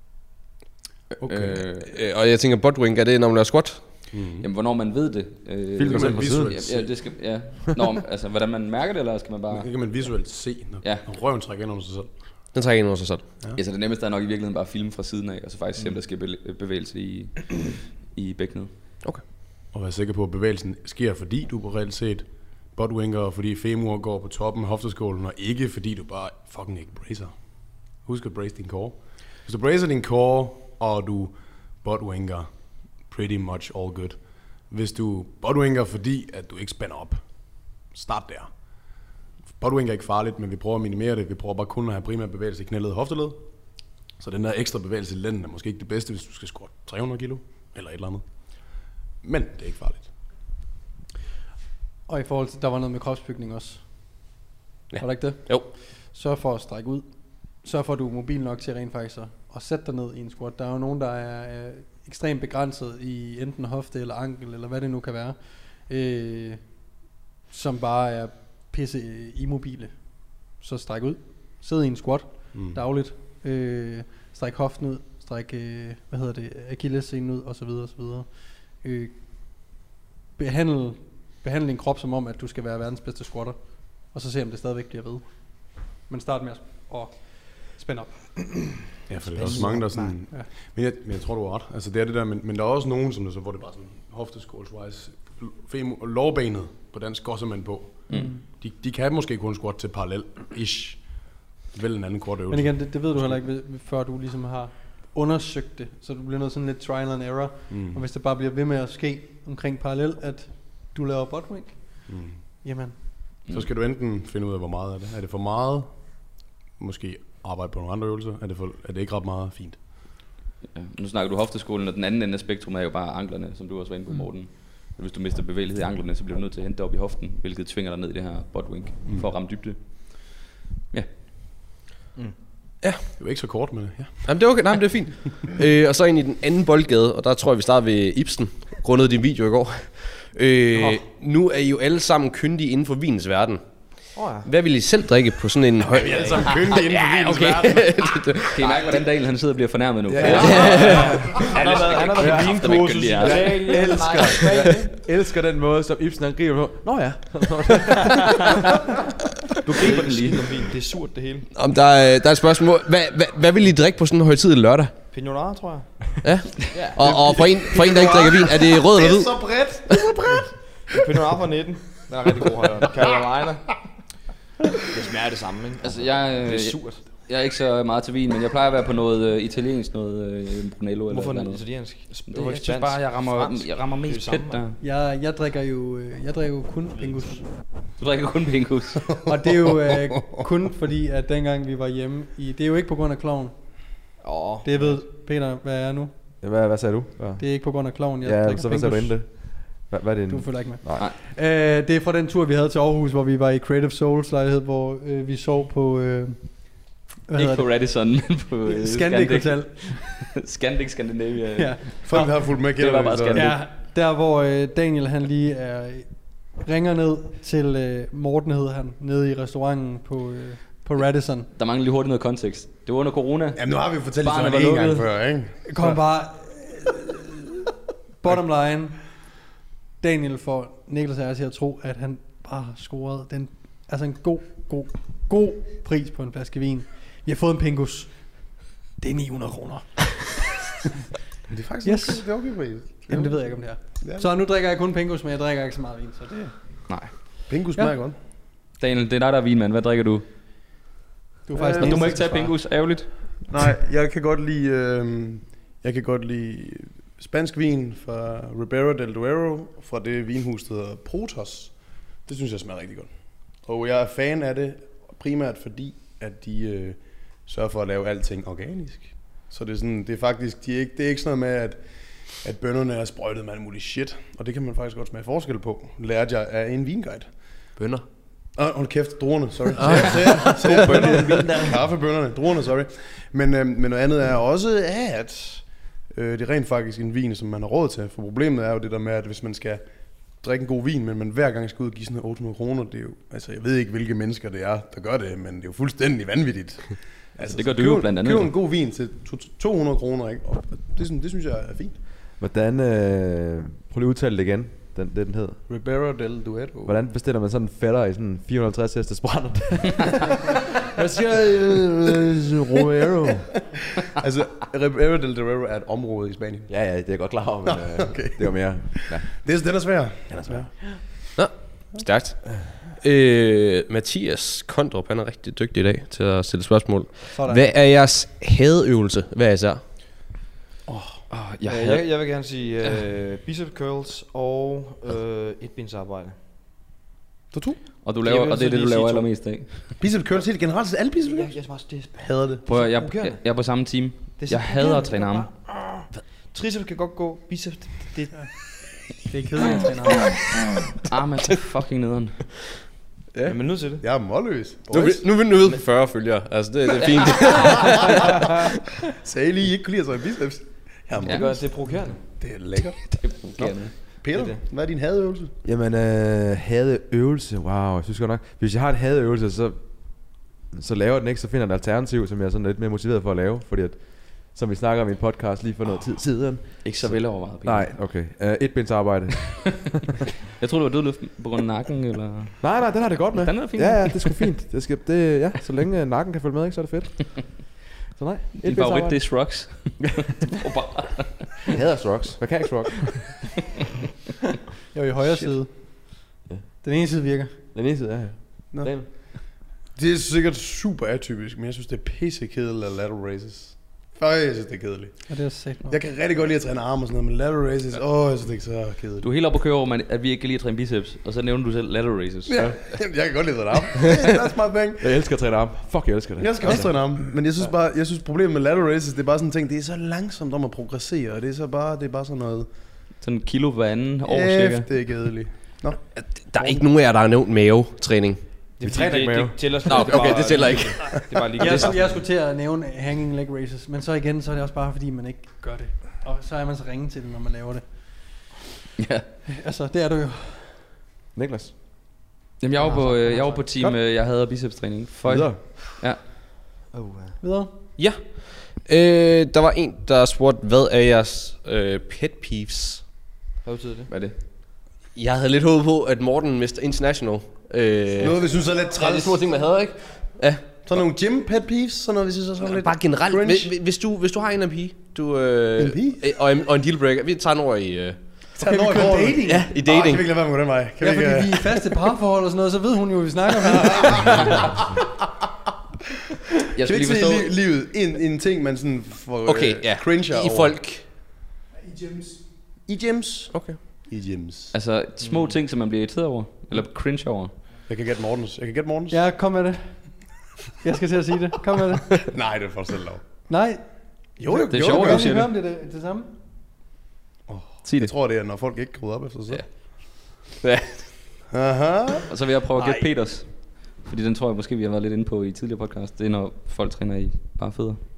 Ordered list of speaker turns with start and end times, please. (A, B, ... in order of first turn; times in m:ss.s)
0:01.2-0:01.9 A
0:01.7-0:04.0 B
0:04.1-0:04.4 C
0:04.2-0:09.7 A
0:05.8-0:06.6 D
0:05.9-0:06.9 C
0:09.5-0:12.1 C
0:10.8-0:11.0 A
0:12.5-0:13.3 B
0:13.5-0:18.7 A
0:19.7-0:27.3 C
0:27.9-0:32.5 C
0:33.0-0:37.2 C
0:37.8-0:38.5 C
0:39.6-0:43.4 C
0:44.2-0:50.1 C
0:52.1-0:54.1 E
0:54.9-0:55.7 B
0:55.0-1:06.8 E
1:07.5-1:19.7 E
1:12.5-1:12.8 C
1:20.4-1:28.2 E
1:29.1-1:43.3 C
1:29.4-1:30.1 F
1:29.4-1:30.5 E
1:38.1-1:38.4 E
1:42.5-1:53.0 E
1:47.7-1:48.0 C
1:52.1-1:52.4 C
1:53.5-1:59.8 C
2:00.7-2:11.1 A
2:12.8-2:13.0 B
2:13.2-2:14.5 C
2:14.2-2:29.0 B
2:24.1-2:24.5 F
2:25.9-2:27.9 C
2:28.5-2:33.6 A
2:30.1-2:31.5 D
2:30.2-2:34.9 F
2:30.4-2:30.8 B
2:31.5-2:33.4 C
2:32.2-2:38.5 D
2:39.6-2:40.6 A
2:39.7-2:41.5 F
2:41.5-2:44.9 B
2:45.1-2:47.6 F
2:46.2-2:50.4 B
2:48.9-2:50.4 C
2:50.9-2:53.6 F
2:54.9-2:57.0 F
2:55.8-3:01.6 A
3:01.1-3:04.7 F
3:02.3-3:04.8 A
3:04.8-3:07.4 E
3:08.0-3:09.2 A
3:09.2-3:13.8 E
3:10.1-3:10.4 C
3:14.2-3:15.0 F
3:14.6-3:16.1 E
3:16.4-3:21.1 D
3:17.4-3:19.5 E
3:20.3-3:27.7 E
3:27.3-3:33.6 A
3:28.6-3:30.2 E
3:31.6-3:32.6 E
3:32.0-3:33.6 C
3:33.3-3:41.5 E
3:41.5-3:45.1 A
3:43.6-3:45.6 C
3:45.7-3:47.5 E
3:48.2-3:49.1 E
3:50.0-4:00.4 E
4:01.5-4:04.2 C
4:01.8-4:06.5 E
4:06.9-4:07.1 A
4:07.5-4:08.2 C
4:08.8-4:10.2 A
4:11.5-4:12.5 E
4:11.5-4:12.3 C
4:11.8-4:13.4 A
4:13.5-4:37.3 C
4:37.8-4:38.0 B
4:38.5-4:49.8 C
4:39.7-4:41.4 B
4:40.6-4:41.6 A
4:50.4-5:02.0 C
4:57.5-4:58.5 A
5:02.4-5:05.6 D
5:05.7-5:07.1 C
5:06.8-5:13.5 D
5:14.1-5:16.7 C
5:16.7-5:19.3 D
5:17.6-5:20.7 C
5:20.3-5:20.6 D
5:21.3-5:29.8 B
5:27.3-5:27.7 E
5:30.9-5:31.2 C
5:31.3-5:33.0 A
5:31.6-5:36.4 F
5:37.5-5:37.8 C
5:38.0-5:40.0 A
5:38.2-5:39.4 F
5:40.0-5:41.6 C
5:41.2-5:43.4 F
5:42.1-5:42.7 C
5:42.6-5:45.7 A
5:44.4-5:48.4 F
5:49.1-5:50.3 E
5:51.0-5:52.5 A
5:53.4-5:54.0 F
5:54.0-5:55.2 C
5:54.9-5:58.6 B
5:59.2-6:01.7 C
6:01.2-6:01.5 A
6:01.2-6:02.2 F
6:02.4-6:05.5 C
6:03.1-6:04.0 A
6:04.3-6:04.6 F
6:05.6-6:20.0 D
6:16.8-6:17.9 A
6:20.6-6:24.5 A
6:22.6-6:29.8 D
6:28.6-6:31.7 A
6:31.7-6:33.4 D
6:34.9-6:37.5 E
6:37.7-6:39.1 D
6:38.7-6:49.3 C
6:45.3-6:46.0 E
6:49.2-6:52.9 A
6:52.5-6:55.1 C
6:55.0-6:56.9 D
6:56.4-7:02.7 C
7:03.2-7:05.0 A
7:04.2-7:06.0 C
7:06.1-7:08.7 B
7:08.8-7:12.2 F
7:08.8-7:11.2 D
7:09.9-7:11.0 B
7:11.6-7:18.5 E
7:19.0-7:19.2 A
7:19.5-7:20.8 E
7:21.3-7:21.7 D
7:22.6-7:26.2 A
7:22.8-7:23.7 F
7:25.2-7:25.8 D
7:26.9-7:27.4 F
7:27.4-7:27.7 E
7:28.0-7:33.1 B
7:33.6-7:34.1 F
7:34.1-7:34.3 A
7:35.1-7:41.0 B
7:38.2-7:39.5 C
7:40.8-7:43.7 C
7:42.6-7:48.4 B
7:45.8-7:46.2 C
7:48.5-7:51.9 C
7:48.6-7:49.6 E
7:49.4-7:50.3 B
7:51.0-7:54.6 E
7:53.7-7:54.7 C
7:56.7-7:57.5 A
7:56.8-8:00.8 C
7:59.4-8:01.1 B
8:02.8-8:04.7 C
8:03.5-8:03.8 B
8:04.7-8:07.5 A
8:05.2-8:05.6 F
8:07.9-8:09.2 C
8:09.1-8:12.1 E
8:12.2-8:13.2 C
8:13.5-8:16.3 E
8:14.4-8:15.4 C
8:14.7-8:15.5 A
8:17.5-8:19.6 C
8:17.8-8:18.1 A
8:19.5-8:21.1 A
8:21.5-8:22.3 C
8:22.3-8:28.0 A